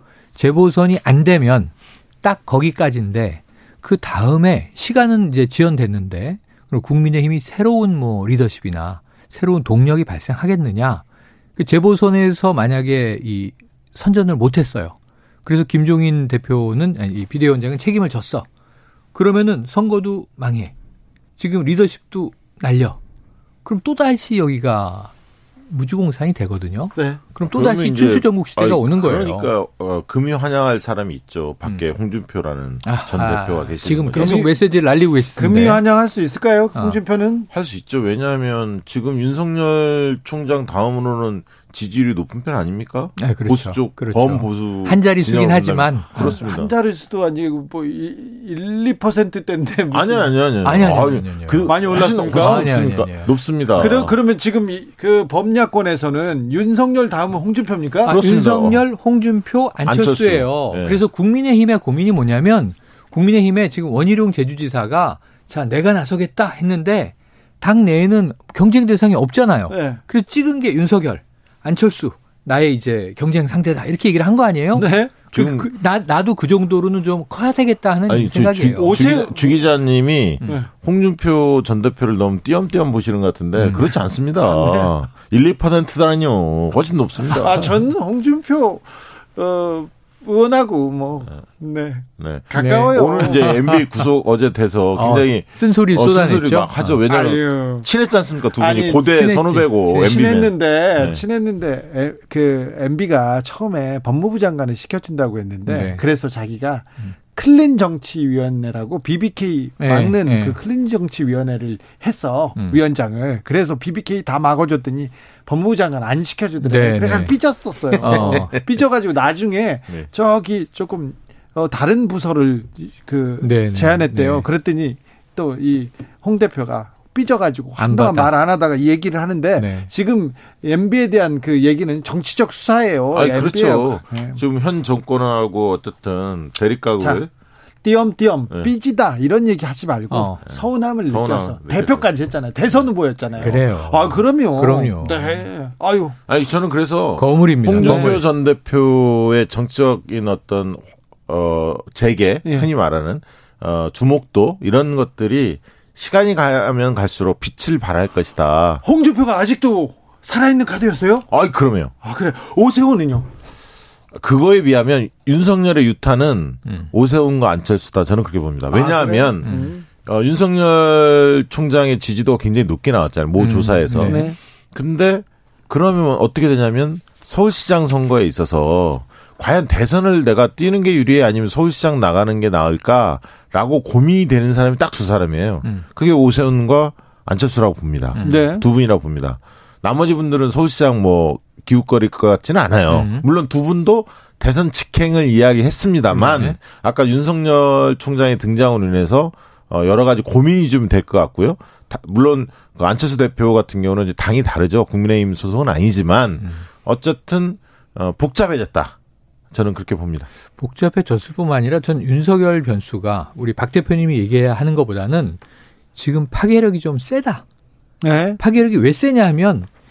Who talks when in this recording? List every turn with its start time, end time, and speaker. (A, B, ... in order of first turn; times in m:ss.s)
0:00.4-0:01.7 A
0:02.2-0:11.0 A
0:11.6-0:18.5 A
0:19.1-0:20.7 A
0:21.4-0:23.0 A
0:23.6-0:25.1 A
0:25.6-0:29.5 A
0:27.0-0:27.2 B
0:27.4-0:34.4 C
0:32.8-0:35.8 A
0:34.1-0:34.6 B
0:35.4-0:37.5 B
0:37.5-0:46.7 C
0:43.2-0:46.4 A
0:46.2-0:50.3 B
0:49.9-0:54.2 C
0:50.6-0:53.3 A
0:51.6-0:52.8 B
0:53.8-0:58.2 B
0:58.0-1:19.0 A
0:58.1-0:58.8 C
0:59.8-1:01.0 C
1:09.7-1:10.0 B
1:14.8-1:15.1 B
1:15.3-1:15.7 C
1:18.1-1:27.7 C
1:18.8-1:19.6 B
1:23.6-1:23.9 A
1:24.4-1:24.9 B
1:27.3-1:33.5 B
1:32.2-1:41.2 C
1:32.5-1:34.0 A
1:35.0-1:37.0 A
1:37.1-1:37.9 B
1:38.6-1:39.1 B
1:39.1-1:40.2 A
1:39.9-2:14.4 B
1:45.7-1:46.0 A
1:49.8-1:50.6 A
1:52.6-1:52.8 A
1:56.6-1:57.4 A
1:58.0-1:58.6 A
1:58.1-1:58.4 C
2:03.4-2:04.5 A
2:07.8-2:08.3 A
2:09.6-2:09.9 A
2:13.1-2:17.3 C
2:17.0-2:17.3 B
2:17.8-2:26.2 B
2:20.1-2:20.4 A
2:20.5-2:22.2 C
2:23.4-2:25.4 A
2:26.3-2:38.8 C
2:27.2-2:28.2 A
2:27.7-2:28.2 B
2:38.8-2:41.3 B
2:41.3-2:41.9 C
2:42.0-2:43.3 B
2:44.1-3:29.0 C
2:48.7-2:49.9 B
2:49.4-2:49.7 A
2:53.4-2:54.3 A
2:54.0-2:54.4 B
3:08.1-3:08.6 A
3:08.2-3:08.6 B
3:12.9-3:13.3 A
3:16.1-3:16.6 A
3:29.5-3:30.3 C
3:30.6-3:35.4 A
3:36.0-3:37.4 A
3:38.0-3:38.4 B
3:38.4-3:39.7 A